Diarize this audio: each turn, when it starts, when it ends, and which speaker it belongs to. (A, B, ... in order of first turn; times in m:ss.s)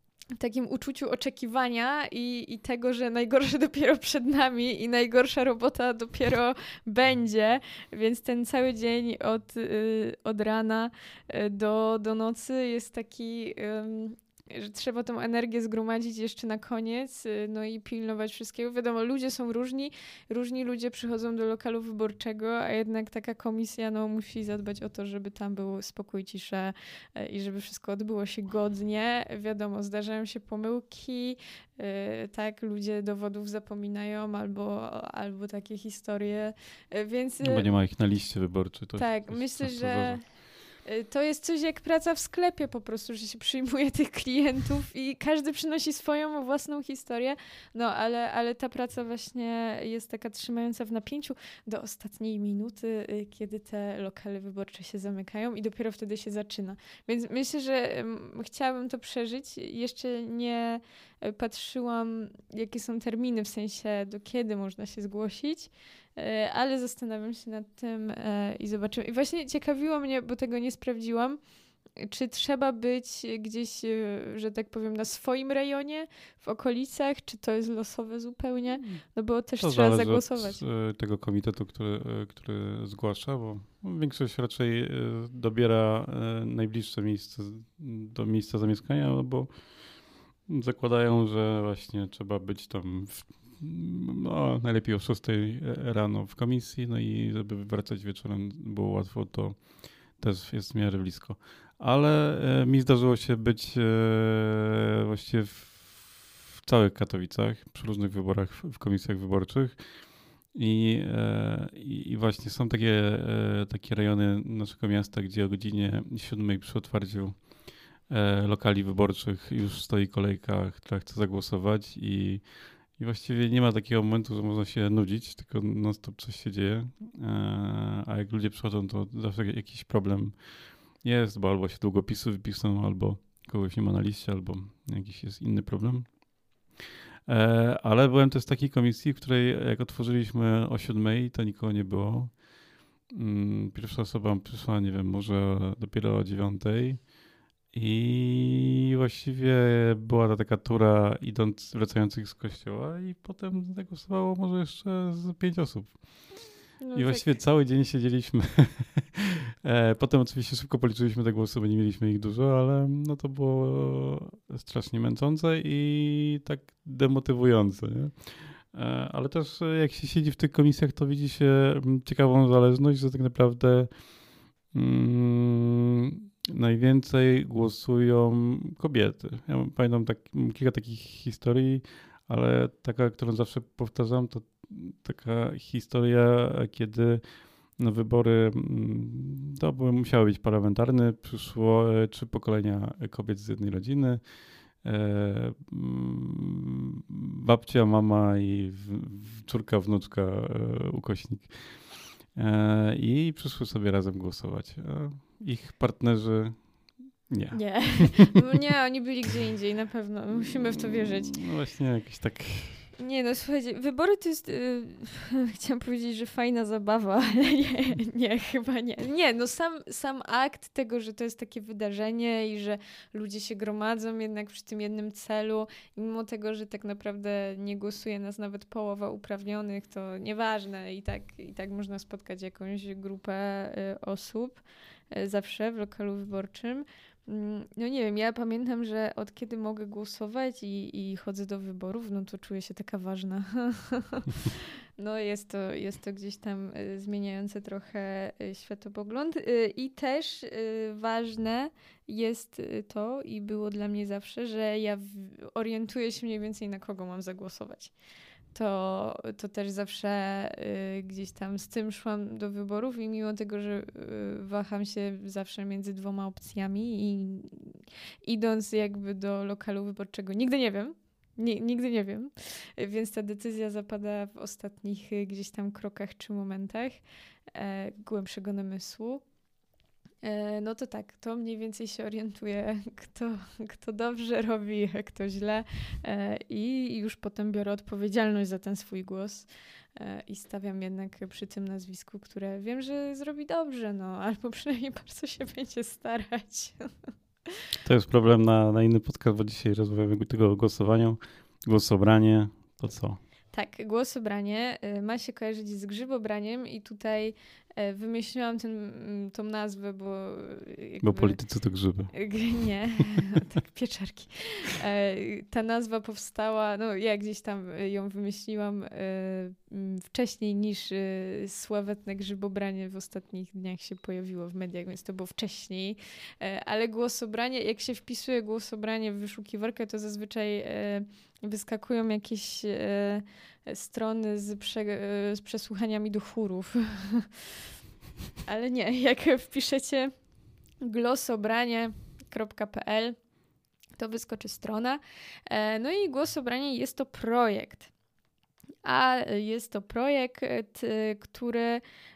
0:00.4-0:37.7 A
0:37.4-0:40.2 B
0:39.0-1:11.4 A
1:12.0-1:20.6 A
1:19.6-2:16.7 B
2:17.2-2:22.5 B
2:23.1-2:27.1 B
2:27.7-3:14.2 B
2:36.8-2:37.4 A
3:14.8-3:28.3 B
3:27.5-3:31.4 A
3:31.3-3:32.9 B
3:33.0-4:17.9 A
4:18.5-4:37.0 A
4:37.5-4:39.2 A
4:40.2-4:56.9 A
4:57.8-5:03.2 B
5:03.5-5:11.4 A
5:11.0-5:12.3 B
5:12.1-5:37.4 A
5:38.4-5:40.1 A
5:40.8-5:43.2 A
5:44.0-5:47.9 A
5:48.8-5:51.8 A